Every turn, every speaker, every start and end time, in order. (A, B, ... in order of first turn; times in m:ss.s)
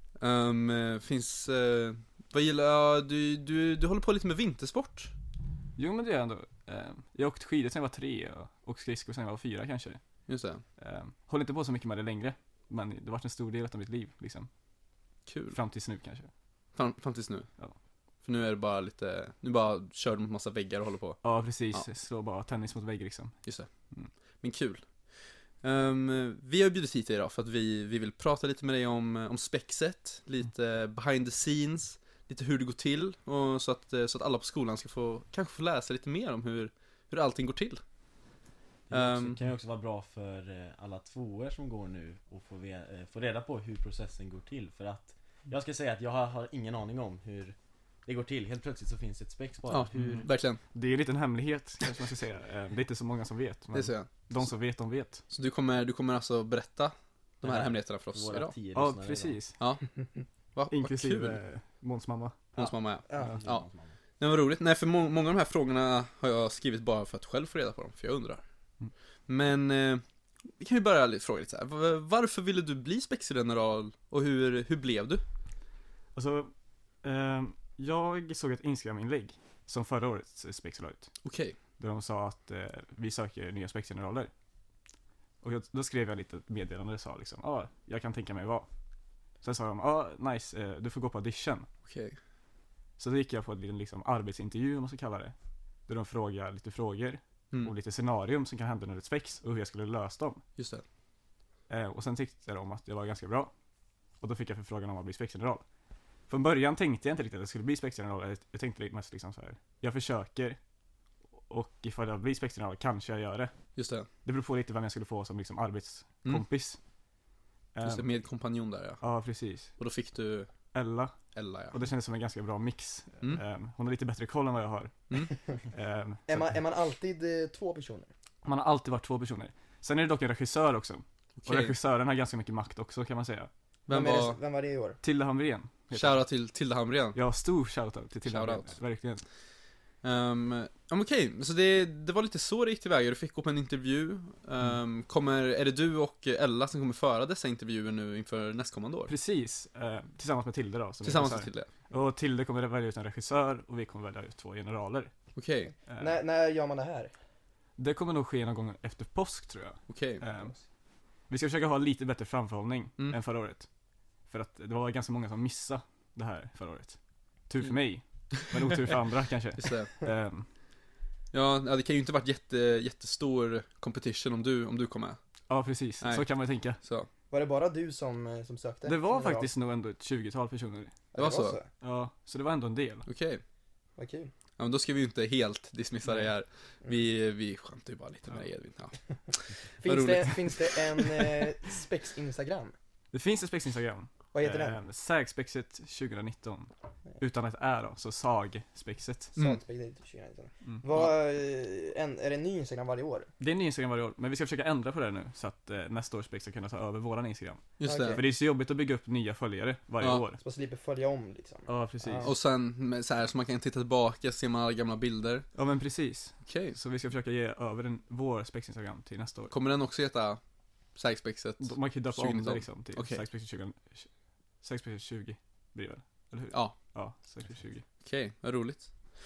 0:00.2-0:05.1 A
0:05.8-0:10.0 B
0:10.3-0:10.6 A
0:10.8-0:14.5 B
0:15.3-0:15.6 A
0:15.5-0:16.3 B
0:16.8-0:17.5 A
0:18.2-0:21.8 A
0:21.2-0:23.4 B
0:24.4-0:24.9 A
0:25.6-0:37.8 A
0:38.9-0:50.0 C
0:38.9-0:39.4 A
0:49.7-0:50.6 A
0:49.9-0:55.2 B
0:53.7-0:54.1 A
0:55.3-0:58.5 A
0:57.4-0:59.4 C
0:58.7-0:59.6 B
0:59.6-0:59.9 A
1:00.6-1:01.4 A
1:00.7-1:02.4 B
1:02.6-1:03.6 A
1:03.1-1:03.4 D
1:03.2-1:04.0 C
1:04.2-1:08.4 A
1:09.3-1:10.0 A
1:10.6-1:15.2 A
1:16.2-1:16.5 B
1:17.0-1:21.1 B
1:21.2-1:21.6 A
1:21.8-1:24.3 B
1:25.4-1:28.7 B
1:29.4-1:31.7 B
1:31.9-1:32.2 A
1:33.0-1:35.3 B
1:35.9-1:40.4 B
1:40.6-1:40.8 A
1:41.7-1:43.5 B
1:44.2-1:45.6 B
1:46.3-1:50.6 B
1:51.5-1:53.5 B
1:53.8-1:54.1 A
1:54.2-1:56.8 B
1:57.7-1:58.1 B
1:57.8-1:59.0 A
1:59.0-1:59.7 B
1:59.8-2:00.5 A
2:00.7-2:01.2 B
2:01.3-2:01.8 A
2:01.7-2:05.1 B
2:05.7-2:06.6 B
2:06.3-2:08.1 D
2:08.4-2:13.5 B
2:11.4-2:11.8 A
2:13.9-2:14.4 A
2:13.9-2:15.0 D
2:15.0-2:16.2 B
2:15.9-2:17.2 A
2:17.2-2:19.2 B
2:18.3-2:18.8 A
2:20.0-2:29.1 A
2:29.1-2:35.2 B
2:31.0-2:31.7 A
2:35.4-2:35.7 A
2:35.9-2:36.2 B
2:36.0-2:37.1 D
2:37.8-2:40.6 B
2:39.9-2:40.2 A
2:41.3-2:43.7 B
2:44.3-2:50.5 B
2:49.6-2:49.9 A
2:51.3-2:55.2 A
2:55.5-2:56.8 B
2:56.8-2:57.1 A
2:57.3-2:59.5 D
2:58.9-3:00.9 B
3:01.1-3:01.7 D
3:01.2-3:01.6 A
3:01.8-3:03.1 B
3:03.1-3:03.4 A
3:04.0-3:04.3 D
3:04.6-3:11.3 A
3:09.8-3:12.7 D
3:13.1-3:19.4 B
3:14.3-3:14.8 D
3:19.4-3:23.3 D
3:23.4-3:30.4 B
3:27.8-3:28.2 A
3:27.8-3:28.2 D
3:30.4-3:32.4 D
3:31.7-3:32.3 B
3:32.2-3:35.5 A
3:35.6-3:39.5 B
3:36.5-3:36.8 A
3:39.5-3:40.4 A
3:41.0-3:43.2 A
3:41.6-3:44.1 B
3:44.6-3:47.8 B
3:48.0-3:48.9 A